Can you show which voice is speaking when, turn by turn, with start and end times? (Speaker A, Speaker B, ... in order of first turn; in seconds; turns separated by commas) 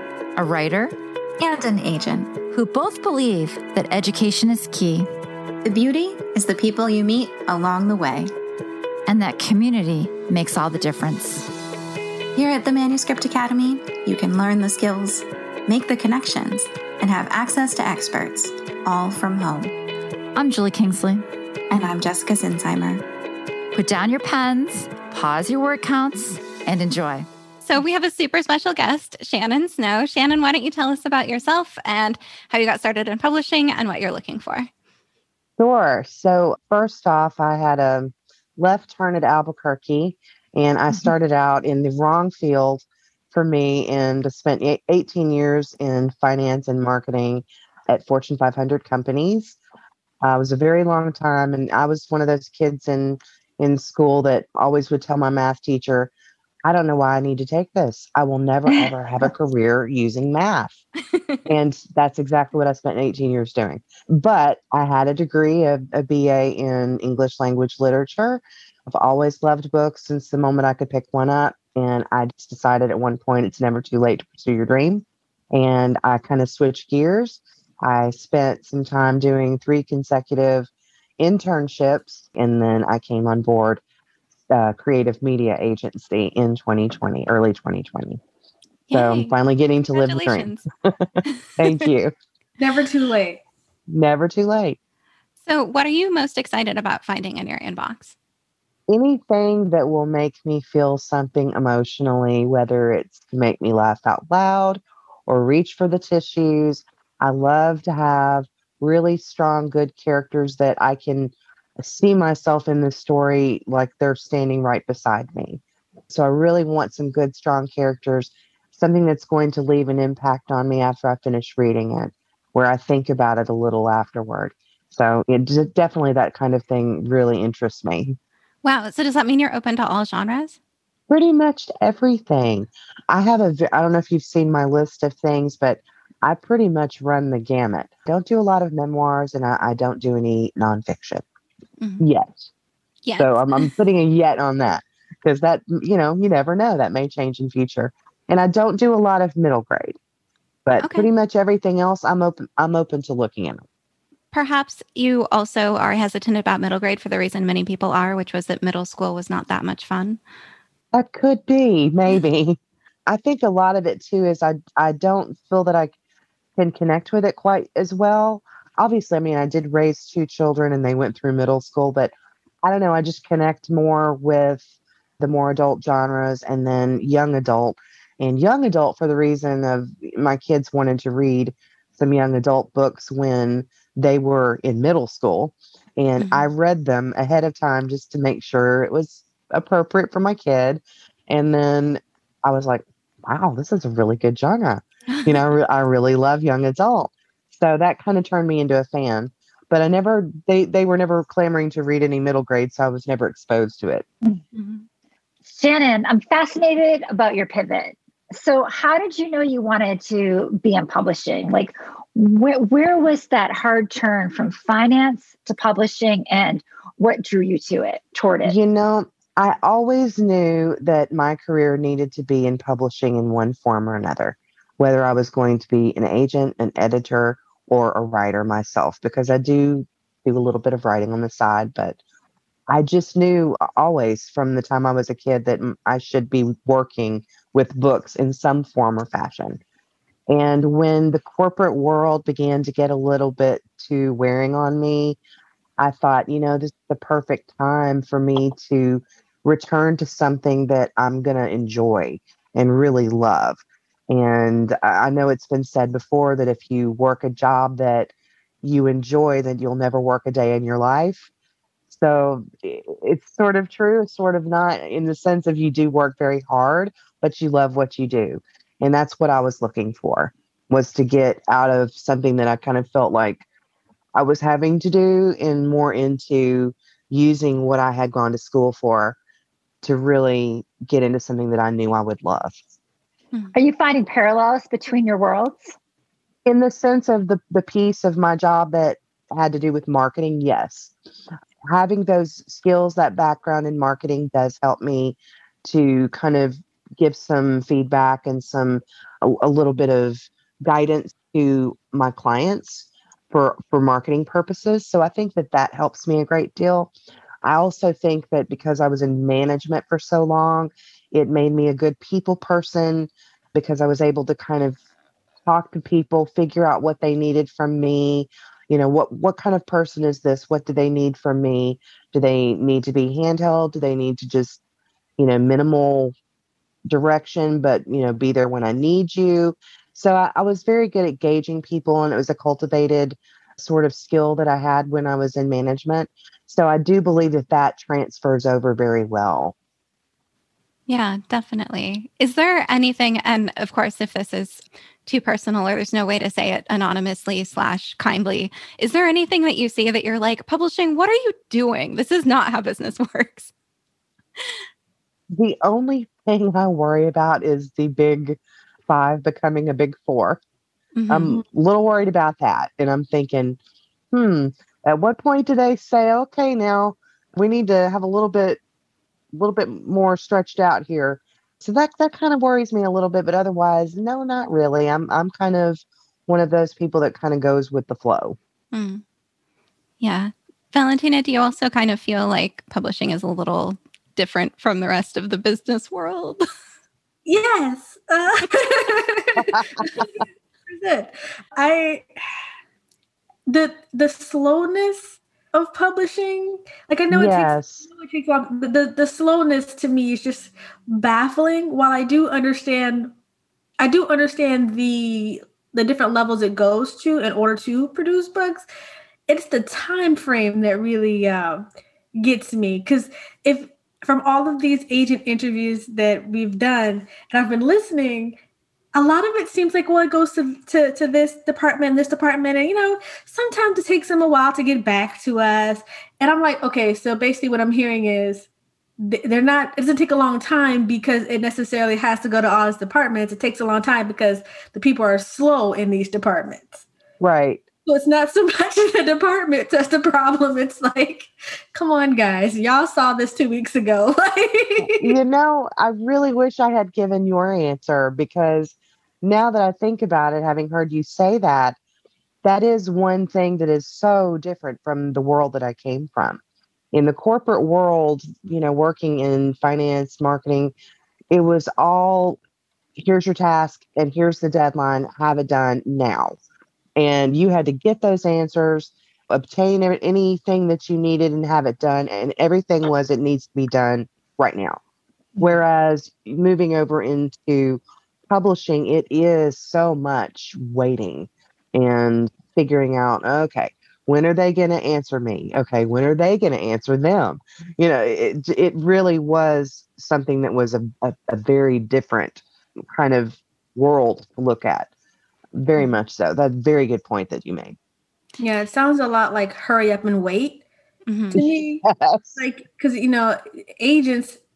Speaker A: 0.3-0.9, Speaker B: 1.4-2.4, Speaker A: 2.5-5.1, Speaker B: 5.6-8.3, Speaker A: 9.1-11.5, Speaker B: 12.3-19.7, Speaker A: 20.3-21.2, Speaker B: 21.7-23.0, Speaker A: 23.7-27.3, Speaker C: 27.6-34.7, Speaker D: 35.6-49.6, Speaker D: 50.2-56.1, Speaker D: 56.6-60.8, Speaker D: 61.5-83.8, Speaker D: 84.5-88.2, Speaker C: 88.9-89.3, Speaker D: 88.9-91.0, Speaker C: 89.9-90.6, Speaker C: 91.3-91.8, Speaker D: 91.6-92.1, Speaker E: 92.6-93.4, Speaker D: 93.9-94.8, Speaker C: 95.4-98.1, Speaker D: 98.9-128.2, Speaker C: 128.6-130.6, Speaker D: 131.1-141.2, Speaker D: 142.0-142.5, Speaker C: 143.1-143.7, Speaker D: 143.2-150.0, Speaker D: 150.7-153.6, Speaker C: 150.8-151.1, Speaker C: 154.3-160.2, Speaker D: 160.9-165.9, Speaker D: 166.6-174.7, Speaker D: 175.2-204.1, Speaker C: 186.2-186.5, Speaker C: 204.6-204.8, Speaker F: 205.5-218.5, Speaker D: 218.4-232.0, Speaker D: 232.7-239.6, Speaker D: 240.3-245.2, Speaker D: 245.8-258.1, Speaker D: 258.6-261.3, Speaker D: 261.9-273.4, Speaker D: 274.1-279.2, Speaker D: 279.8-282.6, Speaker F: 283.5-285.7, Speaker D: 286.4-290.9, Speaker D: 291.7-306.9, Speaker D: 307.4-314.8, Speaker D: 315.4-324.6, Speaker D: 325.2-326.1, Speaker D: 326.9-339.5, Speaker C: 340.9-353.5, Speaker D: 355.3-360.4, Speaker C: 360.9-361.4, Speaker D: 361.1-363.6, Speaker D: 364.1-368.6, Speaker D: 369.3-378.4, Speaker C: 378.7-379.0, Speaker C: 380.0-386.4, Speaker E: 387.2-392.1, Speaker E: 393.5-403.1, Speaker D: 397.1-397.9, Speaker E: 403.8-408.6, Speaker E: 409.3-418.4, Speaker E: 418.9-428.5, Speaker E: 429.0-436.9, Speaker D: 437.2-437.6, Speaker E: 437.9-445.1, Speaker D: 444.8-451.8, Speaker D: 452.4-456.4, Speaker D: 456.9-460.7, Speaker D: 461.3-462.4, Speaker D: 463.0-466.4, Speaker D: 467.0-474.8, Speaker D: 475.4-494.9, Speaker D: 495.5-497.8, Speaker E: 498.4-500.6, Speaker C: 501.1-501.4, Speaker E: 501.3-501.8, Speaker D: 501.3-502.4, Speaker E: 502.4-504.4